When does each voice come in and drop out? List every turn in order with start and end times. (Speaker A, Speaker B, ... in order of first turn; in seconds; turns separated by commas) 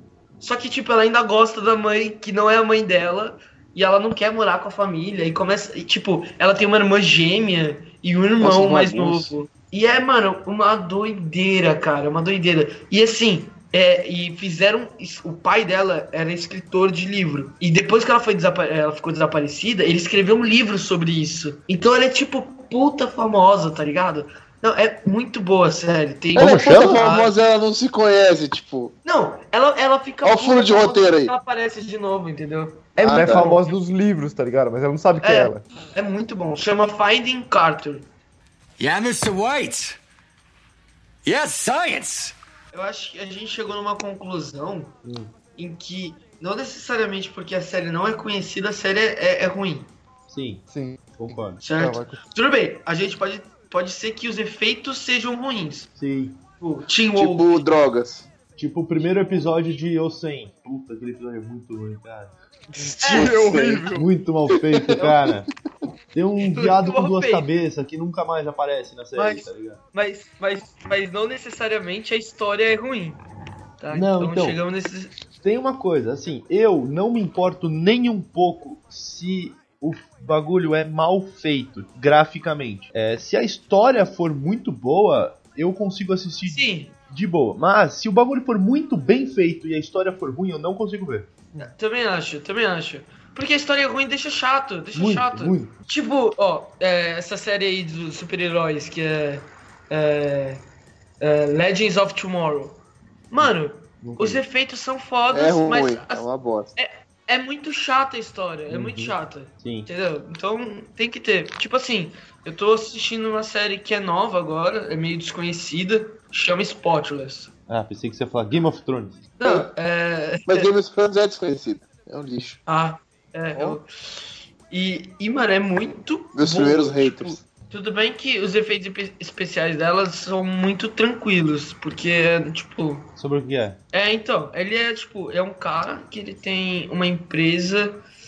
Speaker A: 0.4-27.3, Speaker B: 8.4-9.3, Speaker C: 26.4-27.0, Speaker B: 26.4-28.9, Speaker A: 29.0-33.7, Speaker B: 30.2-31.3, Speaker B: 33.0-33.5, Speaker D: 33.0-35.6, Speaker A: 35.2-38.0, Speaker E: 38.8-40.0, Speaker E: 41.2-42.3, Speaker A: 42.7-44.9, Speaker C: 45.0-45.3, Speaker A: 45.5-49.9, Speaker C: 50.3-50.6, Speaker D: 50.7-52.2, Speaker C: 51.2-51.6, Speaker A: 51.6-55.9, Speaker C: 56.0-56.4, Speaker A: 56.6-57.7, Speaker B: 57.1-58.3, Speaker C: 58.5-62.3, Speaker D: 62.7-64.1, Speaker A: 63.0-63.3, Speaker B: 63.0-63.9, Speaker C: 63.9-65.5, Speaker C: 66.1-69.8, Speaker A: 66.4-67.5, Speaker A: 69.2-73.2, Speaker A: 73.8-75.1, Speaker C: 73.9-74.6, Speaker C: 75.4-91.3, Speaker A: 86.5-86.9, Speaker A: 91.6-100.6, Speaker C: 94.9-95.7, Speaker A: 101.2-102.8, Speaker A: 103.3-106.2, Speaker C: 103.4-104.4, Speaker B: 105.3-106.7, Speaker A: 106.8-117.5, Speaker C: 108.7-109.9, Speaker C: 117.7-119.2, Speaker A: 119.4-120.7, Speaker B: 120.5-122.6, Speaker A: 122.7-133.1, Speaker B: 126.3-127.4, Speaker C: 133.2-133.8, Speaker A: 133.9-138.0